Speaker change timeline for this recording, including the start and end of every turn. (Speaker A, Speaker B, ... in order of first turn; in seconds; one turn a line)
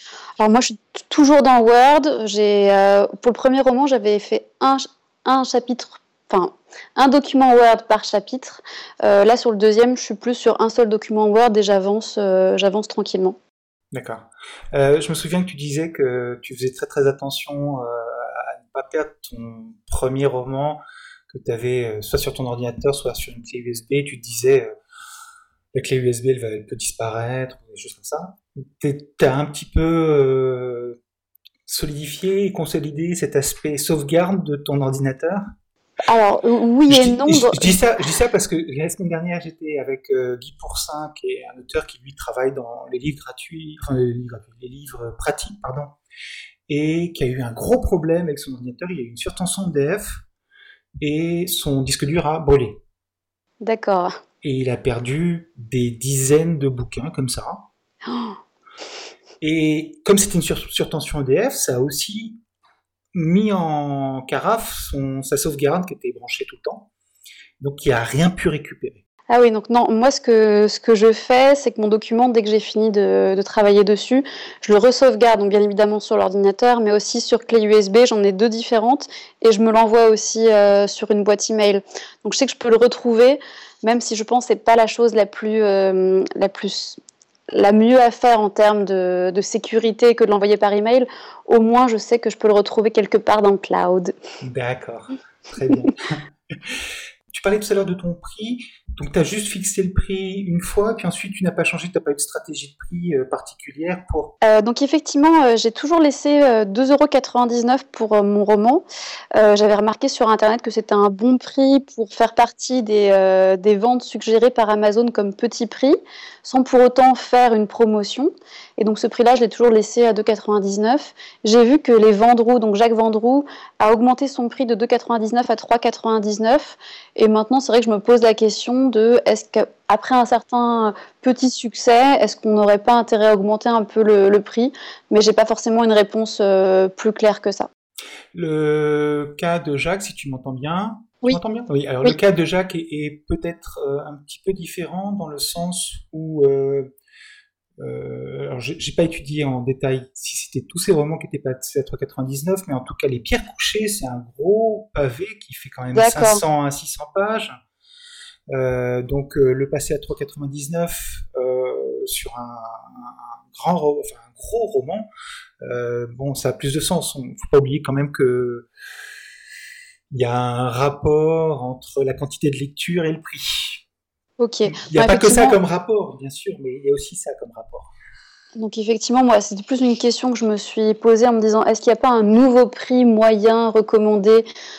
Speaker A: 0.4-13.4
Speaker B: 13.9-24.7
Speaker B: 25.7-30.9
Speaker B: 31.7-35.4
Speaker A: 36.0-37.7
Speaker B: 36.9-45.9
Speaker B: 46.7-50.2
Speaker B: 51.0-52.8
Speaker A: 53.6-54.1
Speaker B: 54.4-57.6
Speaker A: 58.1-58.4
Speaker B: 59.4-62.4
Speaker B: 63.1-66.9
Speaker B: 67.6-69.0
Speaker A: 69.3-87.0
Speaker A: 87.5-94.1
Speaker B: 94.4-104.3
Speaker A: 104.4-108.8
Speaker A: 109.3-137.7
Speaker B: 138.3-146.9
Speaker B: 147.8-157.6
Speaker A: 155.9-156.4
Speaker B: 158.5-165.1
Speaker B: 165.6-168.7
Speaker B: 170.1-173.8
Speaker A: 174.4-175.6
Speaker B: 174.7-177.9
Speaker A: 178.6-184.5